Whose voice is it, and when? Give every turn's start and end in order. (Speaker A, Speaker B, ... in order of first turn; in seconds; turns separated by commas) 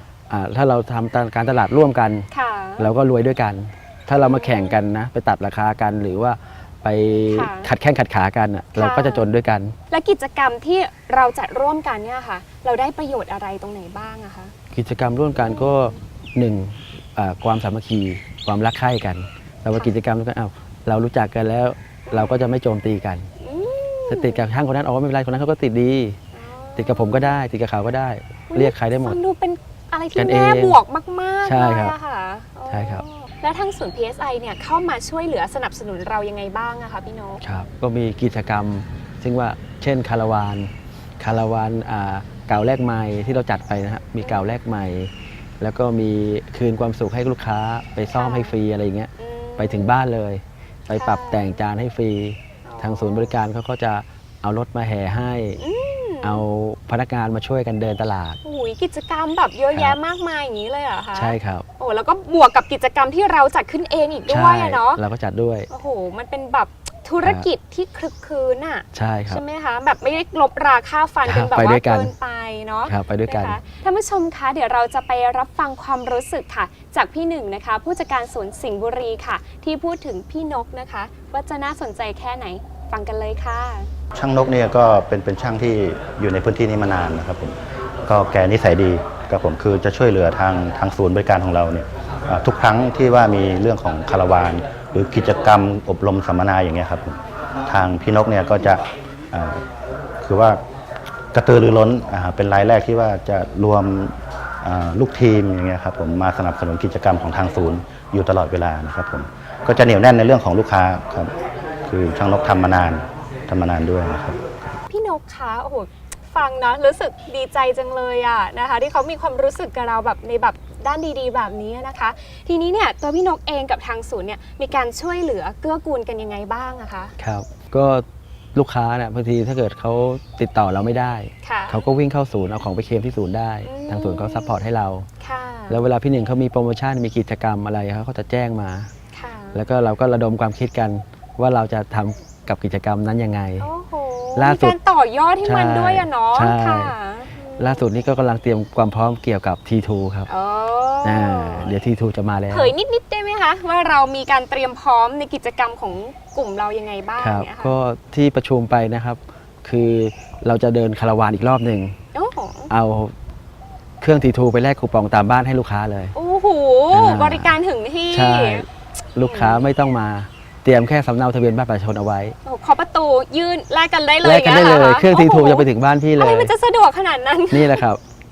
Speaker A: 0.3-2.3, Speaker B: 2.3-2.9, Speaker A: 2.8-9.7, Speaker B: 4.2-4.8, Speaker B: 7.3-7.7, Speaker B: 8.7-9.3, Speaker B: 9.9-14.5, Speaker A: 14.7-23.3, Speaker B: 15.4-15.9, Speaker B: 22.1-22.5, Speaker B: 23.4-24.5, Speaker A: 24.1-26.2, Speaker B: 26.3-27.4, Speaker A: 26.8-29.2, Speaker B: 28.5-37.4, Speaker A: 30.1-30.8, Speaker A: 31.4-31.9, Speaker A: 32.7-33.0, Speaker A: 37.4-55.6, Speaker B: 44.2-44.5, Speaker B: 48.1-48.5, Speaker B: 49.2-50.0, Speaker B: 50.9-51.7, Speaker B: 52.6-53.3, Speaker B: 55.6-56.4, Speaker A: 56.2-58.4, Speaker B: 58.4-65.0, Speaker A: 61.1-61.6, Speaker A: 64.3-65.7, Speaker B: 65.7-83.9, Speaker A: 67.2-67.5, Speaker A: 68.9-69.4, Speaker A: 71.2-72.1, Speaker A: 72.8-73.6, Speaker C: 84.1-99.7, Speaker C: 100.2-100.6, Speaker C: 101.3-111.3, Speaker C: 111.9-114.4, Speaker B: 114.9-127.1, Speaker A: 127.2-135.1, Speaker B: 131.4-131.8, Speaker B: 133.6-134.6, Speaker B: 135.2-135.8, Speaker A: 135.7-138.9, Speaker B: 139.1-139.6, Speaker A: 139.5-143.7, Speaker B: 143.6-147.9, Speaker A: 144.3-144.8, Speaker A: 145.4-146.9, Speaker A: 147.6-150.3, Speaker B: 150.3-151.7, Speaker A: 151.0-152.7, Speaker B: 152.5-157.8, Speaker A: 157.2-161.9, Speaker B: 162.1-162.7, Speaker A: 162.7-163.1, Speaker A: 164.0-166.2, Speaker B: 166.1-168.7, Speaker A: 166.9-167.6, Speaker A: 168.1-172.4, Speaker B: 169.2-169.6, Speaker B: 172.4-177.8, Speaker A: 174.2-176.5, Speaker A: 177.5-178.0